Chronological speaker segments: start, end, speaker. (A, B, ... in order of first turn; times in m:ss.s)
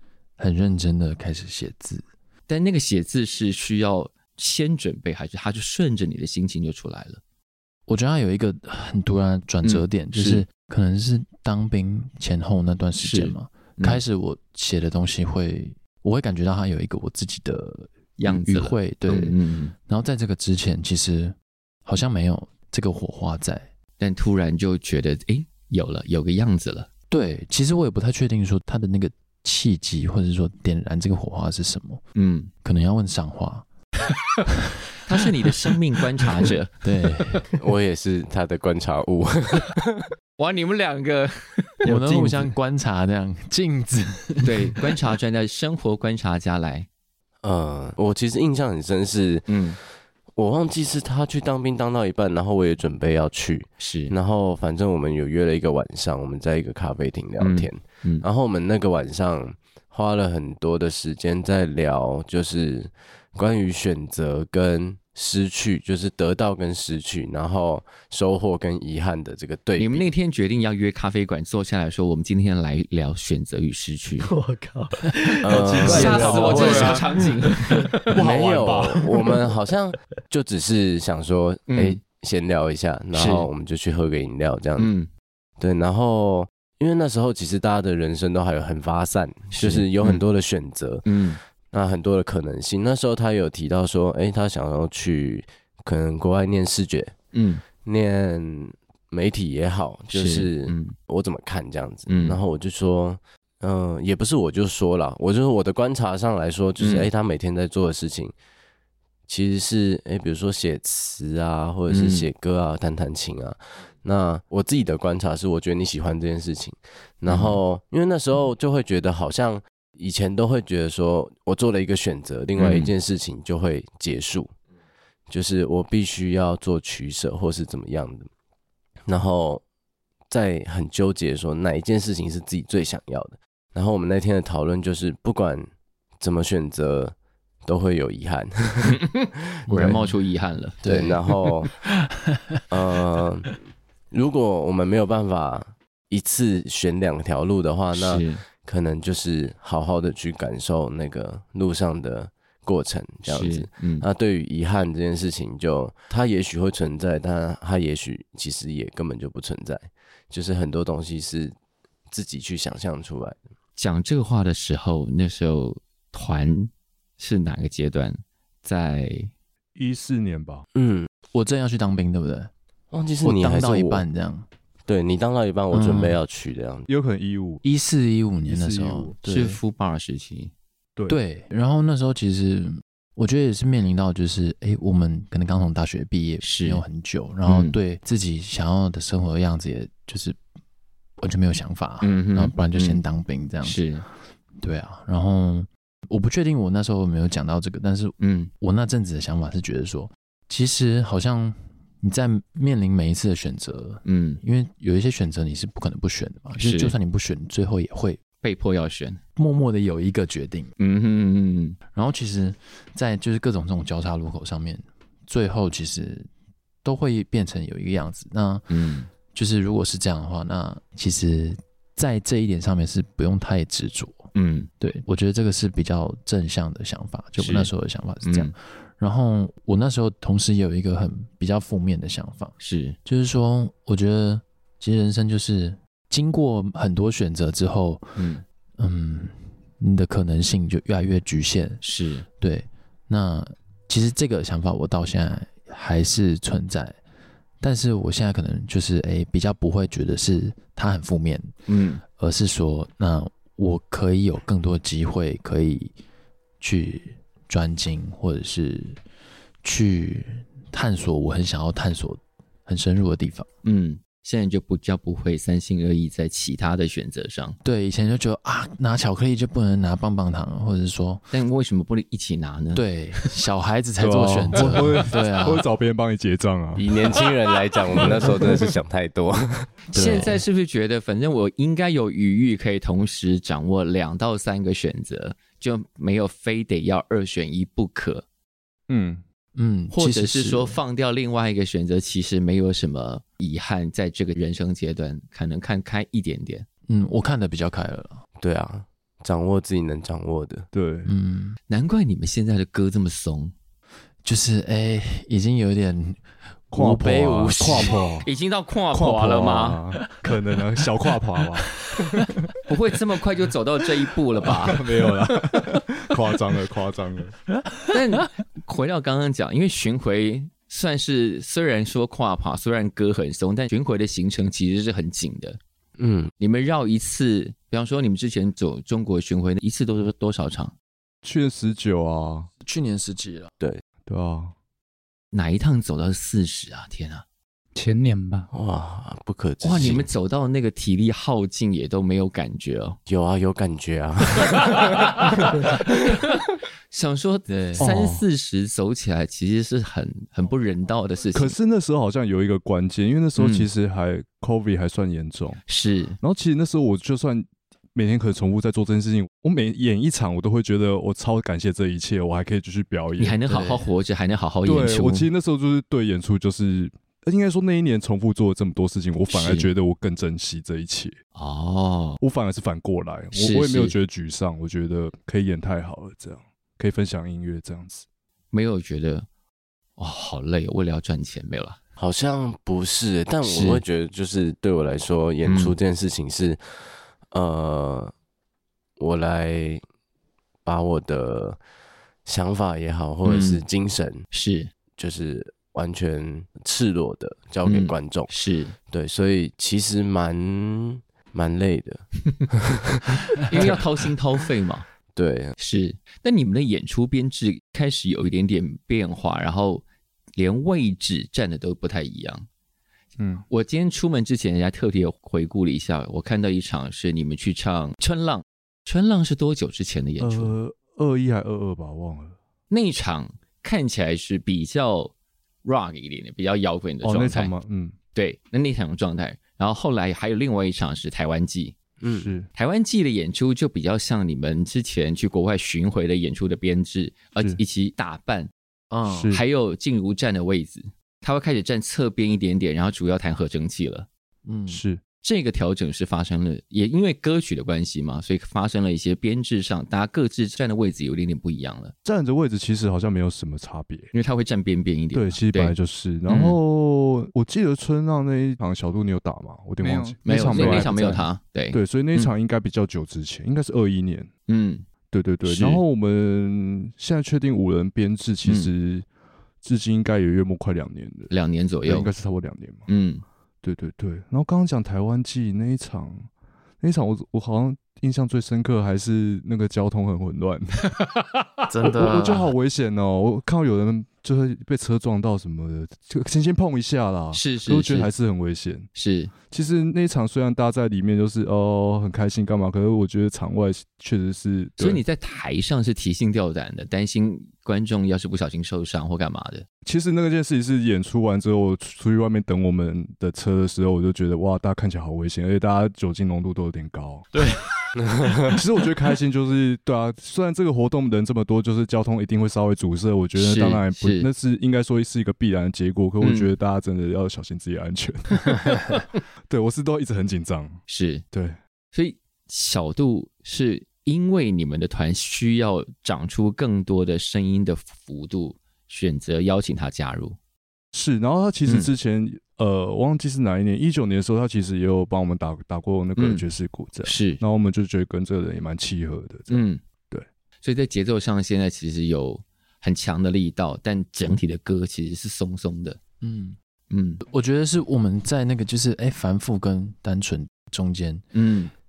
0:00.4-0:02.0 A
0:02.5-0:07.2 B
0:07.9-0:23.7 A
0:09.6-0:10.4 B
0:13.0-0:14.0 B
0:18.2-0:19.7 B
0:24.0-0:26.9 B
0:27.1-0:32.0 A
0:32.1-0:32.5 B
0:32.6-0:33.7 A
0:35.0-0:36.8 B
0:36.8-0:37.4 A
0:37.6-0:40.1 C
0:40.4-0:42.3 B
0:41.8-0:44.5 A
0:44.4-0:46.9 B
0:47.4-0:49.5 C
0:49.5-0:49.8 B
0:50.4-1:10.0 C
0:53.8-0:54.1 B
0:57.4-0:58.2 B
1:09.8-1:14.3 B
1:14.2-1:18.2 D
1:15.4-1:17.0 C
1:15.8-1:17.7 B
1:15.8-1:17.0 E
1:18.1-1:19.0 E
1:18.1-1:24.9 C
1:21.7-1:22.0 B
1:23.1-1:23.5 B
1:24.8-1:25.1 B
1:25.6-1:31.1 C
1:29.5-1:30.2 B
1:31.0-1:31.4 B
1:31.7-1:37.1 C
1:37.3-1:37.6 B
1:37.8-1:48.3 C
1:40.1-1:40.9 B
1:42.1-1:42.4 B
1:46.8-1:47.1 B
1:49.3-2:04.5 C
1:51.9-1:52.3 B
1:57.3-1:57.6 B
2:02.6-2:02.9 B
2:05.3-2:08.3 C
2:09.1-2:09.6 C
2:10.3-2:15.7 C
2:16.2-2:19.0 C
2:19.1-2:20.8 B
2:19.7-2:20.1 A
2:20.8-2:21.2 A
2:20.8-2:21.7 C
2:22.3-2:22.6 A
2:22.7-2:23.5 C
2:24.1-2:41.5 C
2:27.9-2:28.4 B
2:33.2-2:34.0 B
2:42.1-2:43.4 C
2:43.8-2:49.3 B
2:49.7-2:50.6 E
2:50.7-2:51.1 C
2:51.3-2:52.5 A
2:52.9-2:54.0 C
2:53.2-2:54.5 A
2:54.9-2:56.9 C
2:55.7-2:56.2 A
2:56.9-2:57.6 E
2:57.6-2:59.6 A
2:58.4-2:59.2 E
2:59.2-3:00.5 B
3:01.1-3:10.4 A
3:06.4-3:06.8 B
3:07.4-3:07.8 B
3:11.2-3:13.8 A
3:12.0-3:13.0 B
3:13.6-3:14.0 B
3:14.6-3:28.2 A
3:18.2-3:18.5 B
3:24.0-3:24.4 B
3:26.6-3:27.0 B
3:28.4-3:29.2 B
3:29.4-3:30.7 A
3:30.8-3:31.8 B
3:31.9-3:36.3 A
3:36.8-3:38.7 A
3:38.7-3:39.1 B
3:39.3-3:52.5 A
3:44.3-3:44.7 B
3:47.4-3:47.7 B
3:48.2-3:48.5 B
3:52.6-3:53.0 B
3:53.0-3:58.2 A
3:58.2-3:58.4 B
3:58.8-4:01.8 A
4:01.8-4:02.2 B
4:02.4-4:07.0 A
4:07.6-4:11.5 A
4:11.7-4:12.0 B
4:12.1-4:15.9 A
4:16.6-4:19.0 A
4:19.6-4:23.5 A
4:23.6-4:27.6 B
4:27.6-4:31.2 A
4:31.3-4:32.8 B
4:32.7-4:35.6 A
4:34.0-4:36.8 E
4:36.8-4:39.7 C
4:38.0-4:38.5 E
4:39.9-4:40.4 A
4:39.9-4:48.2 B
4:48.9-4:49.2 E
4:49.5-4:50.8 A
4:49.9-4:56.6 B
4:56.9-4:58.2 A
4:58.4-5:00.7 C
5:00.7-5:01.1 E
5:01.0-5:01.6 A
5:01.7-5:03.5 B
5:04.2-5:06.2 A
5:06.7-5:08.0 A
5:06.7-5:08.3 E
5:08.2-5:09.8 B
5:08.9-5:12.5 E
5:12.6-5:14.8 B
5:14.4-5:17.4 E
5:17.9-5:25.6 B
5:26.0-5:26.3 C
5:26.4-5:30.7 B
5:31.2-5:32.5 E
5:32.6-5:33.5 A
5:34.0-5:34.5 E
5:35.3-5:37.2 B
5:37.7-5:38.5 F
5:38.5-5:40.1 C
5:39.6-5:43.0 B
5:43.1-5:45.8 C
5:45.6-5:46.2 B
5:46.9-5:51.6 B
5:47.5-5:47.9 A
5:47.8-5:48.2 E
5:51.3-5:55.6 E
5:53.4-5:53.7 B
5:55.7-5:56.2 B
5:56.2-6:03.4 E
6:03.2-6:05.3 B
6:03.5-6:03.9 A
6:04.6-6:11.2 E
6:09.3-6:09.7 B
6:11.3-6:12.2 B
6:12.2-6:18.0 E
6:13.3-6:13.9 B
6:18.5-6:19.3 B
6:20.0-6:21.8 B
6:22.0-6:26.6 C
6:23.4-6:23.8 B
6:25.4-6:25.8 B
6:27.3-6:28.1 C
6:29.0-6:29.8 C
6:30.6-6:31.6 C
6:32.2-6:34.2 C
6:33.2-6:33.6 B
6:34.3-6:34.7 B
6:35.0-6:38.3 C
6:37.6-6:38.7 B
6:38.9-6:43.8 C
6:43.4-6:44.8 B
6:45.1-6:45.5 C
6:45.6-6:49.8 B
6:50.4-6:52.4 B
6:53.2-6:53.4 E
6:53.5-7:00.5 B
7:00.2-7:02.4 E
7:02.7-7:05.1 B
7:05.6-7:07.5 B
7:07.0-7:07.9 E
7:08.1-7:11.7 B
7:12.0-7:12.3 C
7:12.1-7:12.5 E
7:12.5-7:18.5 B
7:18.9-7:19.3 A
7:19.1-7:19.4 E
7:19.3-7:24.1 B
7:24.4-7:24.8 A
7:24.7-7:25.0 E
7:25.2-7:31.9 B
7:32.0-7:34.1 E
7:34.1-7:35.7 B
7:35.1-7:41.0 E
7:36.3-7:36.6 B
7:39.8-7:41.3 F
7:40.2-7:42.3 B
7:41.7-7:44.3 E
7:44.5-7:44.8 B
7:45.1-7:49.0 E
7:45.4-7:45.8 B
7:48.4-7:48.7 B
7:49.6-7:51.3 E
7:51.3-7:52.1 B
7:51.8-7:52.9 E
7:52.9-7:53.2 B
7:53.6-7:56.3 E
7:56.8-8:01.0 E
8:01.7-8:02.5 A
8:01.8-8:08.9 E
8:07.3-8:08.1 B
8:08.9-8:09.3 B
8:09.5-8:15.0 E
8:14.8-8:19.6 B
8:19.8-8:27.3 E
8:28.0-8:28.6 C
8:28.5-8:40.8 E
8:33.4-8:34.3 B
8:36.2-8:36.5 B
8:40.9-8:41.2 B
8:41.3-8:41.6 E
8:41.9-8:50.4 B
8:50.9-9:00.2 E
8:51.6-8:51.9 B
8:56.2-8:56.4 B
8:57.0-8:57.4 B
8:59.5-8:59.8 B
9:00.6-9:06.0 B
9:06.2-9:06.6 A
9:06.9-9:07.2 B
9:07.2-9:11.2 A
9:11.3-9:11.7 B